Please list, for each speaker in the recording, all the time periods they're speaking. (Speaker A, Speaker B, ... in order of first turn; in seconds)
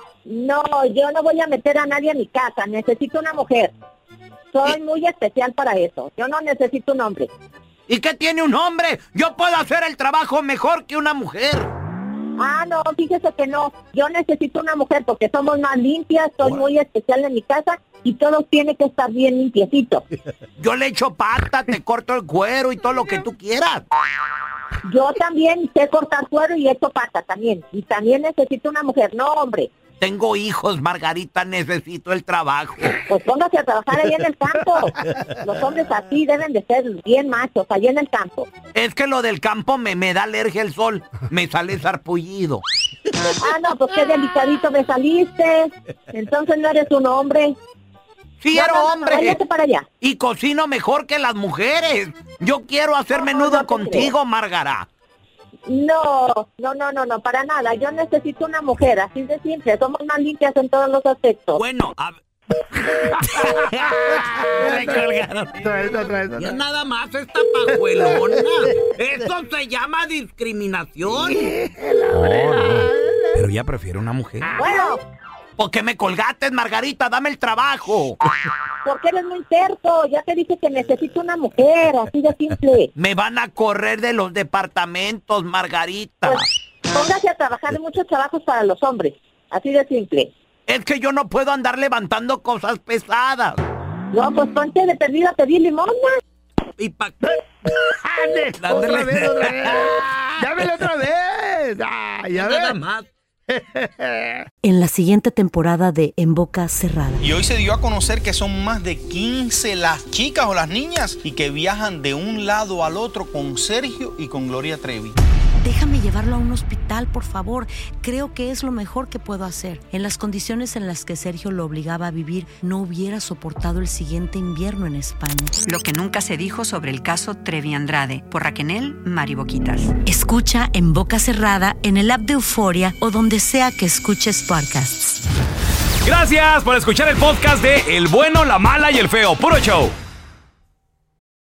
Speaker A: 0.3-3.7, 4.5-7.3, 12.4-20.0, 24.9-29.7, 33.0-38.5, 43.4-47.6, 48.5-49.9, 53.1-54.1, 55.7-61.6, 74.6-75.0, 78.8-82.9, 86.2-90.3, 94.1-96.2
Speaker B: 7.9-11.7, 20.6-23.9, 30.0-33.0, 38.7-42.6, 48.4-49.4, 50.0-54.9, 61.6-62.1, 63.6-65.5, 66.4-71.4, 75.6-78.2, 83.0-86.4, 90.7-93.6, 96.8-97.3, 98.6-100.4, 102.3-103.1
Speaker C: 64.6-66.6, 67.7-68.4, 71.0-73.4, 97.7-102.8, 103.5-104.5
Speaker D: 64.6-64.9, 72.1-74.5, 136.0-139.9
Speaker E: 104.6-107.2, 115.6-125.6, 130.0-135.2
Speaker F: 107.2-115.2
Speaker G: 125.6-130.0